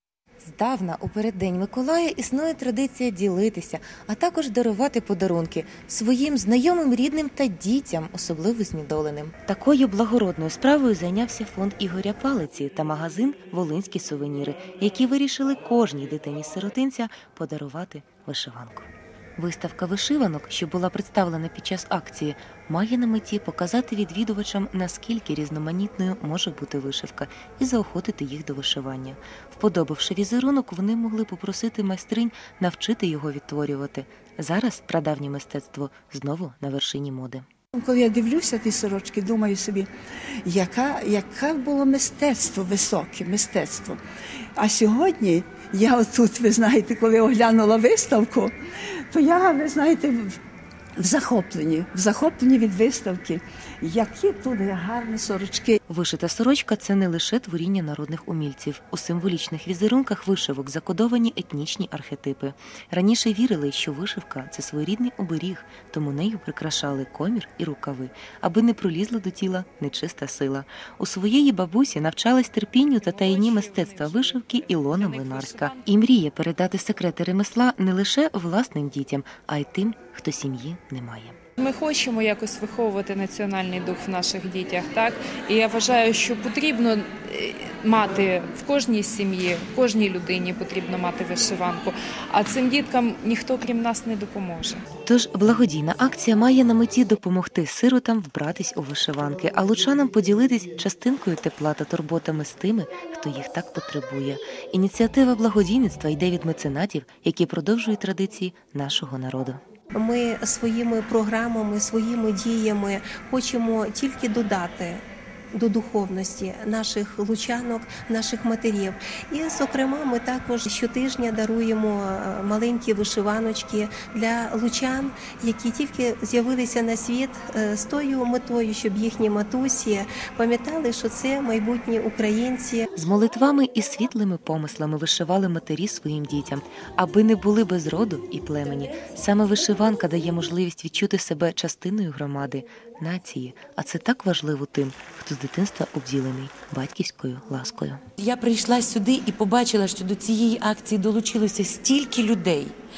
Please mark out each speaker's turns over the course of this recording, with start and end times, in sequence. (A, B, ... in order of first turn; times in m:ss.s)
0:00.4-0:37.4 A
0:37.8-0:39.9 B
0:40.4-0:44.0 B
0:44.6-0:48.5 B
0:49.1-0:50.4 B
0:51.0-0:55.8 B
0:55.9-1:21.4 A
1:13.0-1:15.8 C
1:21.6-1:34.8 C
1:35.1-1:49.6 A
1:49.9-1:55.0 D
1:55.5-2:12.9 D
2:13.0-2:28.0 A
2:28.2-2:32.7 E